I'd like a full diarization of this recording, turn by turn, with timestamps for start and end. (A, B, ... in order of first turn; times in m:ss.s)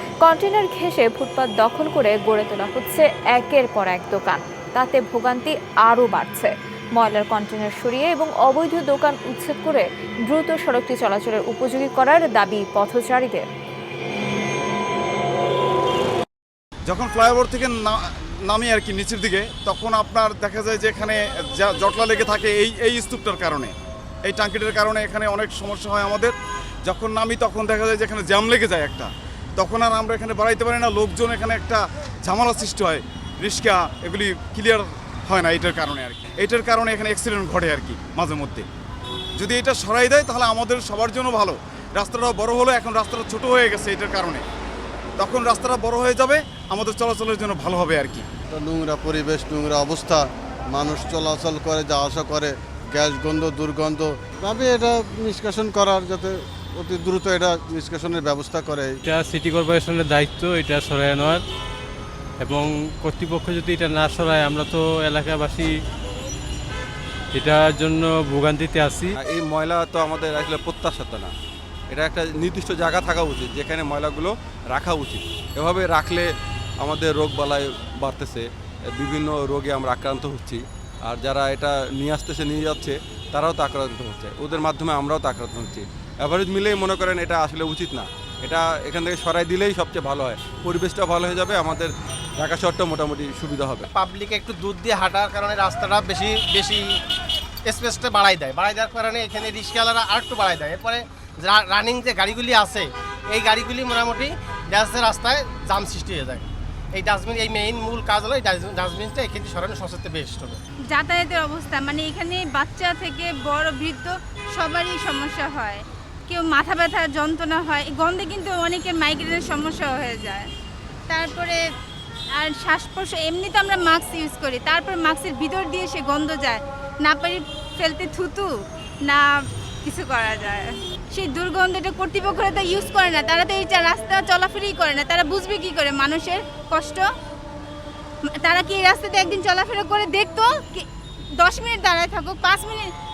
0:00.2-0:13.4 A
0:16.9-0:23.7 B
0:24.2-0:26.3 B
0:26.8-0:38.6 B
0:39.4-0:44.4 B
0:45.2-0:48.2 B
0:48.5-0:59.0 C
0:59.0-1:01.4 D
1:02.4-1:05.7 D
1:07.3-1:09.2 D
1:09.2-1:11.3 E
1:11.9-1:16.2 E
1:16.8-1:33.9 E
1:33.9-1:37.0 F
1:37.6-1:50.6 F
1:50.9-2:00.5 G
2:01.1-2:01.6 G
2:02.3-2:08.5 G
2:09.8-2:17.0 G
2:18.4-2:20.8 G
2:21.4-2:22.9 G